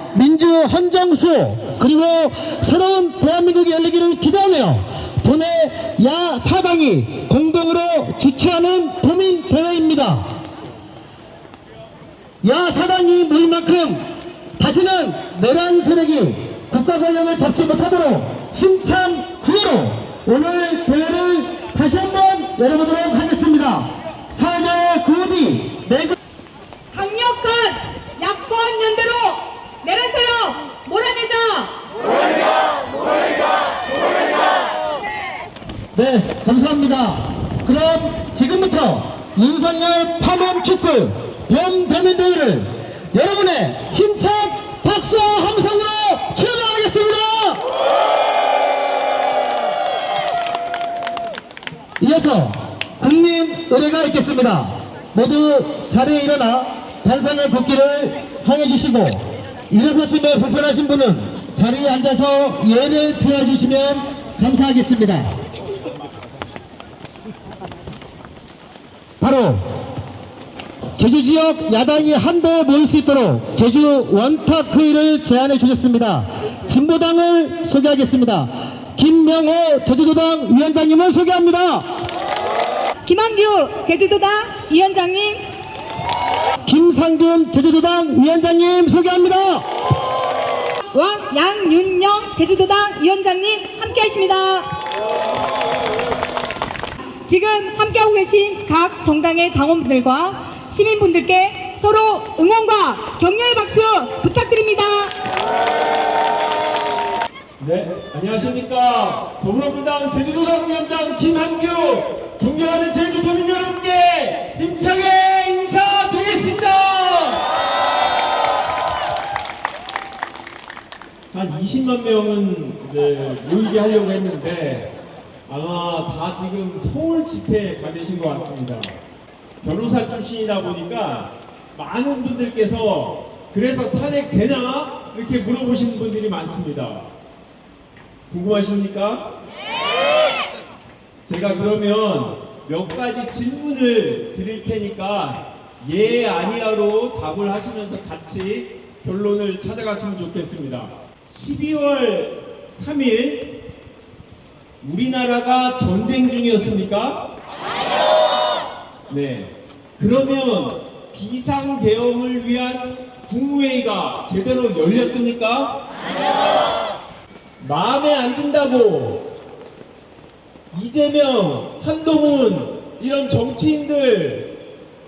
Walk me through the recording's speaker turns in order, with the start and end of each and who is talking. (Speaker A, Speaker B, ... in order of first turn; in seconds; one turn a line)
Speaker A: 0.1-10.2
Speaker A: 12.4-14.0
Speaker A: 14.6-26.1
Speaker B: 26.9-31.7
Speaker A: 35.9-47.6
Speaker A: 52.0-65.3
Speaker A: 69.2-69.6
Speaker A: 71.0-81.9
Speaker B: 83.0-85.4
Speaker A: 86.6-89.6
Speaker B: 90.9-94.7
Speaker B: 97.3-105.1
Speaker C: 107.6-117.4
Speaker C: 121.3-124.9
Speaker C: 125.5-128.9
Speaker C: 129.6-137.1
Speaker C: 138.3-139.3
Speaker C: 141.2-153.5
Speaker C: 154.8-157.2
Speaker C: 159.1-165.8
Speaker C: 167.6-169.2
Speaker C: 170.7-174.5